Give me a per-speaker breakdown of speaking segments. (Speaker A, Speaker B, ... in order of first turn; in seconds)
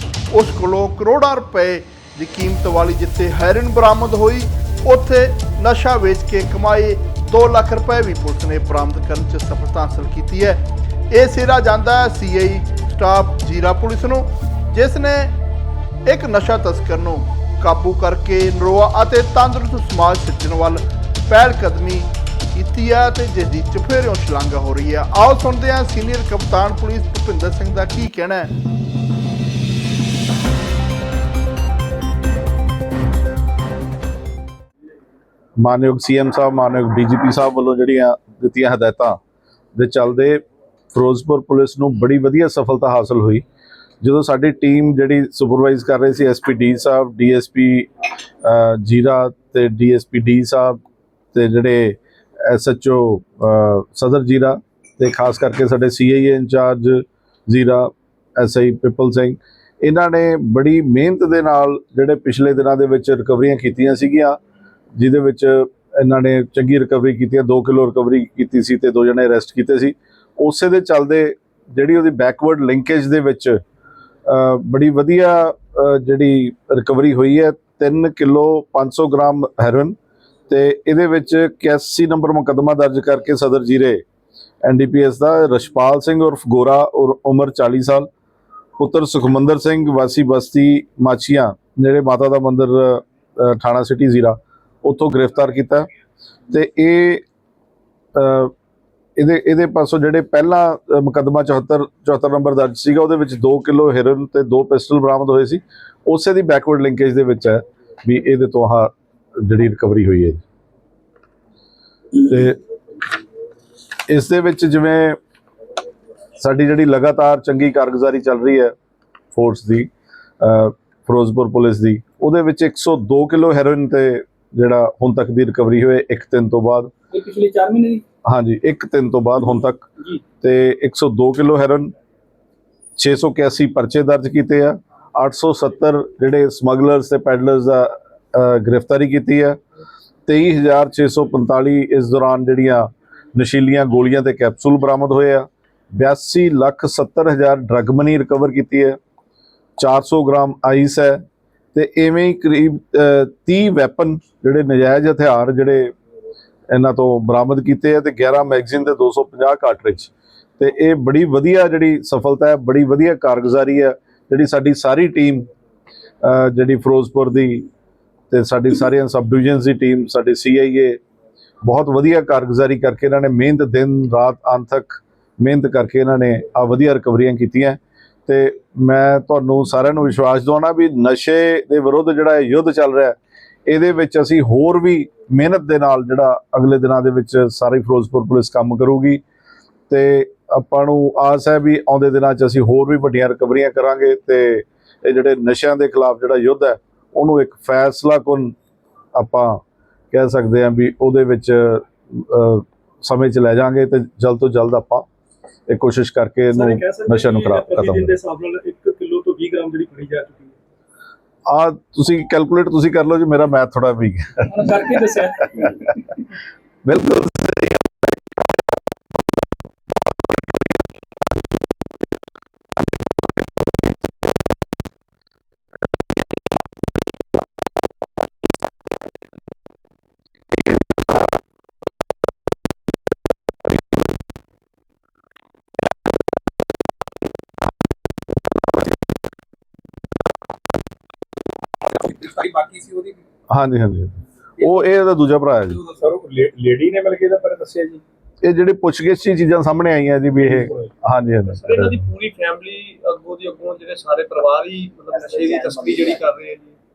Speaker A: 0.3-15.3, 16.1-28.5
Speaker B: 35.6-39.2, 39.8-43.4, 44.0-47.9, 48.4-50.8, 51.3-64.4, 65.0-73.6, 74.2-80.0, 80.5-84.0, 84.6-88.1, 88.8-95.9, 96.5-97.2, 98.1-98.5, 99.2-110.4, 112.1-112.6, 114.1-115.2, 116.4-118.7, 119.3-126.9, 128.2-129.9, 130.4-131.9, 133.0-139.6, 140.3-149.0, 149.8-151.2, 151.7-155.9, 156.7-165.5, 166.2-167.7, 168.3-171.0, 171.6-183.2, 183.7-189.2, 189.9-198.5, 199.1-199.6, 200.1-205.0, 205.7-208.1, 211.4-214.5, 216.8-217.8, 243.5-245.8, 248.4-252.0
Speaker C: 127.1-128.0, 206.5-210.6, 214.5-215.8, 242.0-243.2, 245.8-248.0, 255.2-256.2
Speaker D: 251.6-256.7